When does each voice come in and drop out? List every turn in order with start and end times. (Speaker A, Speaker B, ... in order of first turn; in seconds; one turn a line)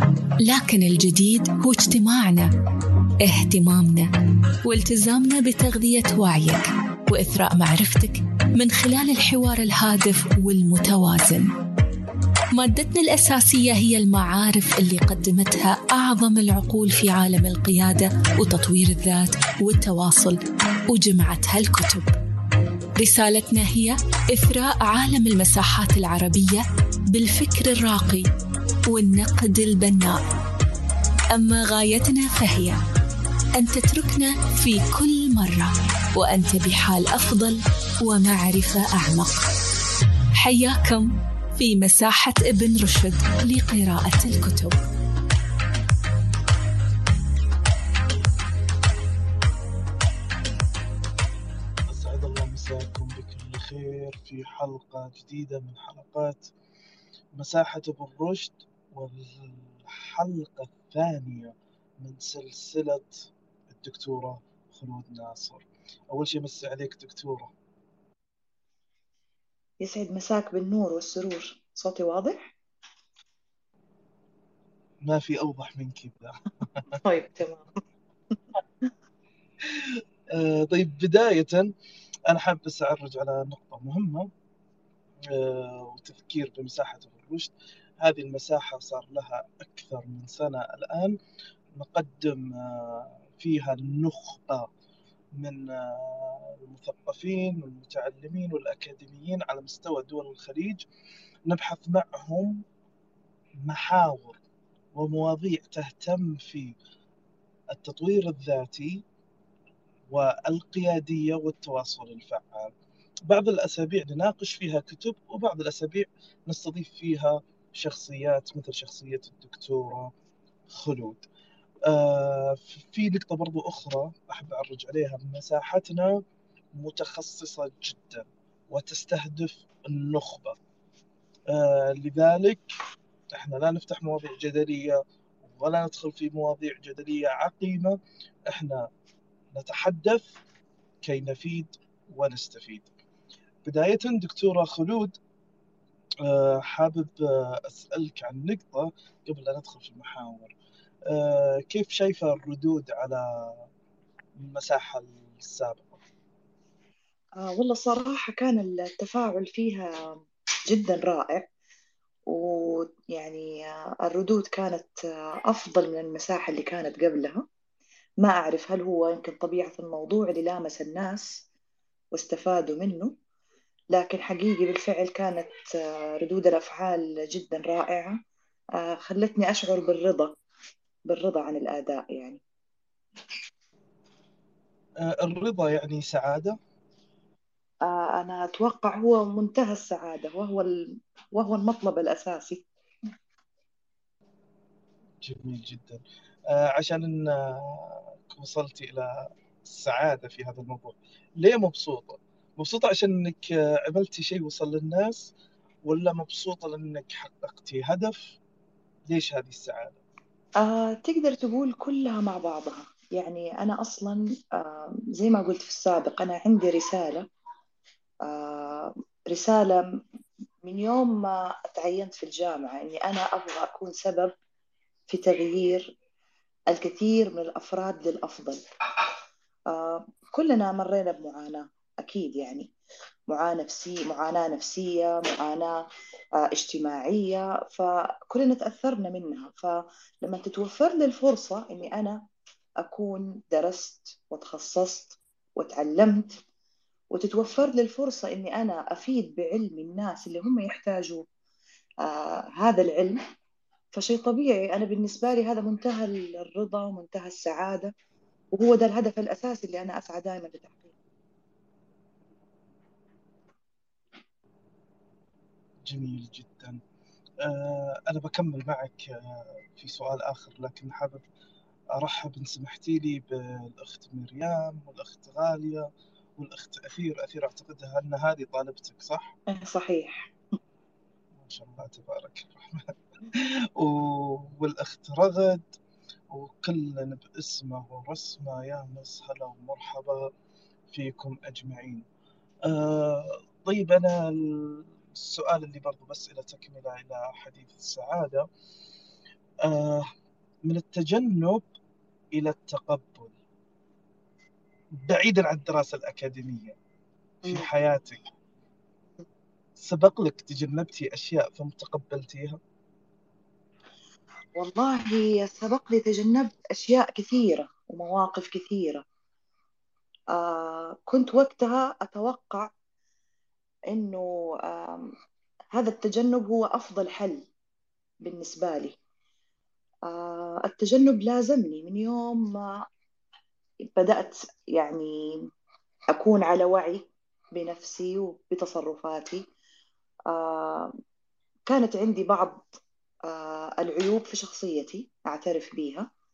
Speaker A: 0.4-2.5
Speaker A: 3.2-4.1
Speaker A: 4.6-11.5
Speaker A: 12.5-22.1
Speaker A: 23.0-28.3
Speaker A: 28.9-30.2
Speaker A: 31.3-32.8
Speaker A: 33.6-39.4
Speaker A: 40.4-44.8
Speaker B: 51.9-56.5
Speaker B: 57.4-67.5
Speaker C: 69.8-72.5
Speaker B: 75.0-77.0
Speaker C: 77.0-77.8
Speaker B: 79.7-81.7
Speaker B: 82.3-84.3
Speaker B: 85.2-91.2
Speaker B: 91.7-94.7
Speaker B: 95.4-100.8
Speaker B: 101.5-102.6
Speaker B: 103.6-104.4
Speaker B: 105.0-106.7
Speaker B: 107.7-109.0
Speaker B: 110.1-112.7
Speaker B: 113.3-120.1
Speaker B: 120.7-121.2
Speaker B: 121.8-126.2
Speaker B: 126.7-130.6
Speaker B: 131.5-132.7
Speaker B: 133.3-138.9
Speaker B: 139.5-140.4
Speaker B: 141.0-142.9
Speaker B: 143.6-145.2
Speaker B: 146.2-150.5
Speaker B: 151.1-153.7
Speaker B: 154.4-156.0
Speaker C: 157.4-161.5
Speaker C: 162.3-164.9
Speaker C: 165.4-167.4
Speaker C: 168.2-171.4
Speaker C: 172.1-173.1
Speaker C: 173.9-178.2
Speaker C: 178.8-180.4
Speaker C: 181.1-182.4
Speaker B: 185.0-186.6
Speaker C: 187.8-190.7
Speaker C: 191.3-192.6
Speaker B: 195.2-205.3
Speaker B: 205.8-208.4
Speaker B: 209.1-210.0
Speaker C: 210.6-217.2
Speaker C: 218.2-220.0
Speaker C: 220.6-224.3
Speaker C: 225.1-225.9
Speaker C: 226.7-228.6
Speaker C: 229.7-232.7
Speaker C: 233.3-235.8
Speaker C: 236.4-242.2
Speaker C: 242.8-246.4
Speaker C: 247.1-251.2
Speaker C: 252.0-253.2
Speaker C: 253.9-257.9
Speaker C: 258.5-260.9
Speaker B: 265.9-266.8
Speaker B: 267.4-271.2
Speaker B: 271.9-279.3
Speaker C: 279.5-280.3
Speaker B: 281.4-285.7
Speaker B: 286.3-290.3
Speaker B: 290.9-292.0
Speaker B: 292.6-298.4
Speaker B: 299.6-300.1
Speaker B: 300.6-301.6
Speaker B: 302.3-303.3
Speaker B: 305.0-306.8
Speaker B: 307.4-308.2
Speaker B: 309.8-312.6
Speaker C: 314.6-319.0
Speaker C: 320.3-322.7
Speaker C: 323.9-325.1
Speaker C: 325.7-327.5
Speaker C: 328.2-328.9
Speaker C: 330.1-332.7
Speaker C: 333.9-335.1
Speaker C: 336.1-337.0
Speaker C: 337.5-339.4
Speaker C: 340.3-340.9
Speaker C: 341.7-342.6
Speaker C: 343.3-346.1